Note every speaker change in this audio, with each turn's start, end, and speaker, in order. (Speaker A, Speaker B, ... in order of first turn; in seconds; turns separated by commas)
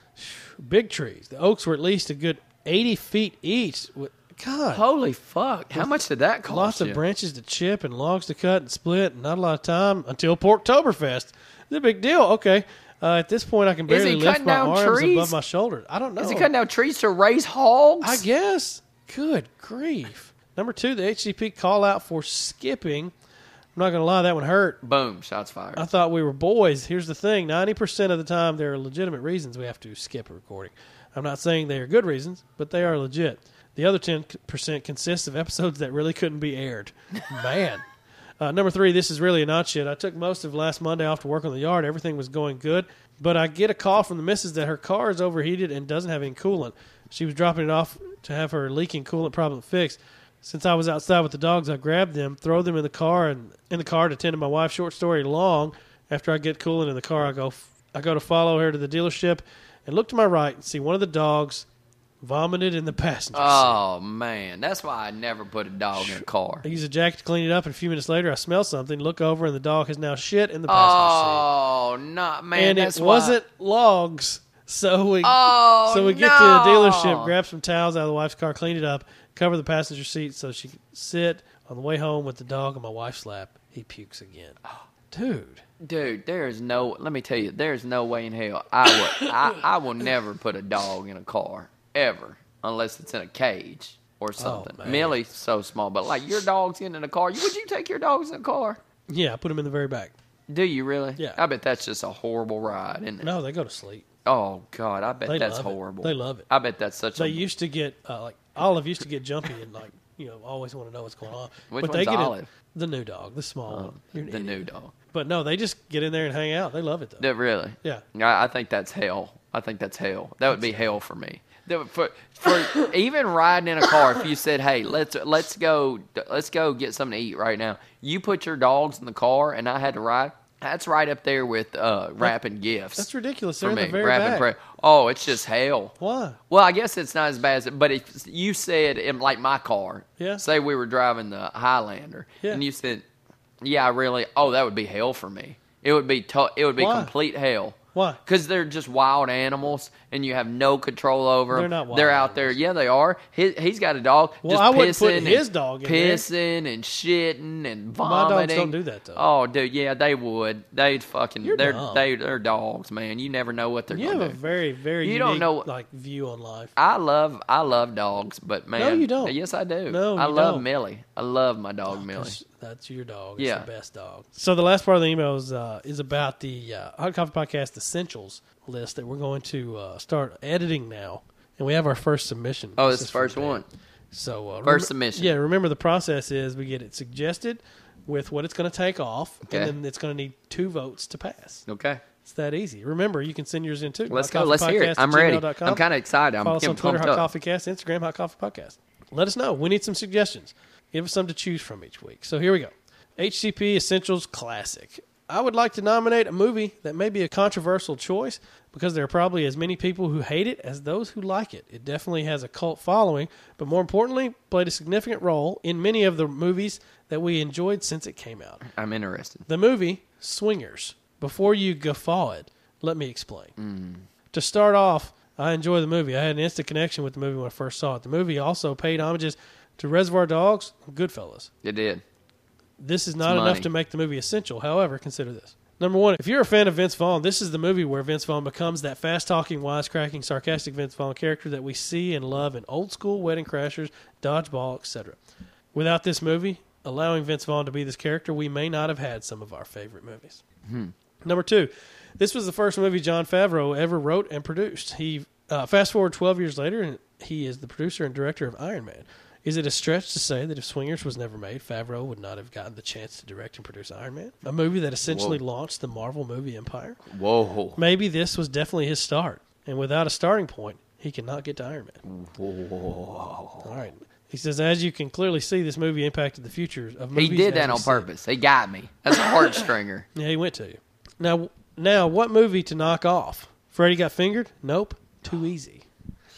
Speaker A: 0.2-4.8, Speaker B: 4.7-7.0, Speaker A: 6.5-16.5, Speaker B: 13.9-15.3, Speaker B: 16.2-18.2, Speaker A: 18.0-23.1, Speaker A: 23.8-24.8, Speaker B: 24.8-25.9, Speaker A: 25.8-37.8, Speaker A: 38.4-61.7, Speaker A: 62.2-63.8, Speaker B: 63.3-66.7, Speaker A: 66.0-71.5, Speaker B: 70.7-73.4, Speaker A: 72.5-84.6, Speaker B: 75.2-77.3, Speaker A: 85.1-85.6, Speaker B: 85.8-98.8, Speaker A: 94.4-95.2, Speaker A: 99.1-100.2, Speaker B: 100.5-103.3, Speaker A: 103.2-104.1, Speaker B: 104.3-107.4, Speaker A: 105.3-106.5, Speaker A: 107.2-117.3, Speaker B: 111.7-112.5, Speaker B: 113.7-114.9, Speaker B: 117.2-133.1, Speaker A: 120.5-120.9, Speaker A: 133.0-134.5, Speaker B: 133.6-135.9, Speaker A: 136.0-136.4, Speaker B: 136.5-143.1, Speaker A: 140.2-140.4, Speaker B: 143.6-164.4, Speaker A: 146.8-147.1, Speaker A: 147.9-148.2, Speaker A: 151.5-152.6, Speaker A: 154.4-156.3, Speaker A: 158.0-159.2, Speaker A: 161.4-162.1, Speaker A: 163.9-166.7, Speaker B: 165.0-165.7, Speaker B: 166.8-172.4, Speaker A: 168.8-169.4, Speaker A: 169.9-170.7, Speaker A: 171.9-191.7, Speaker B: 173.4-173.7, Speaker B: 182.8-183.7, Speaker B: 184.6-185.3, Speaker B: 189.5-189.7, Speaker B: 191.7-192.0, Speaker A: 192.2-195.8, Speaker B: 194.1-197.3, Speaker A: 196.4-218.6, Speaker B: 218.6-219.5, Speaker A: 219.5-223.5, Speaker B: 223.6-224.1, Speaker A: 224.3-231.5, Speaker B: 231.6-232.0, Speaker A: 232.8-245.2, Speaker B: 233.2-233.7, Speaker A: 245.7-250.4, Speaker B: 250.7-250.9, Speaker A: 251.2-267.0, Speaker B: 265.1-265.4, Speaker B: 267.1-267.8, Speaker A: 267.8-272.0, Speaker B: 272.0-273.7, Speaker A: 273.6-278.1, Speaker B: 277.1-280.1, Speaker A: 280.1-285.9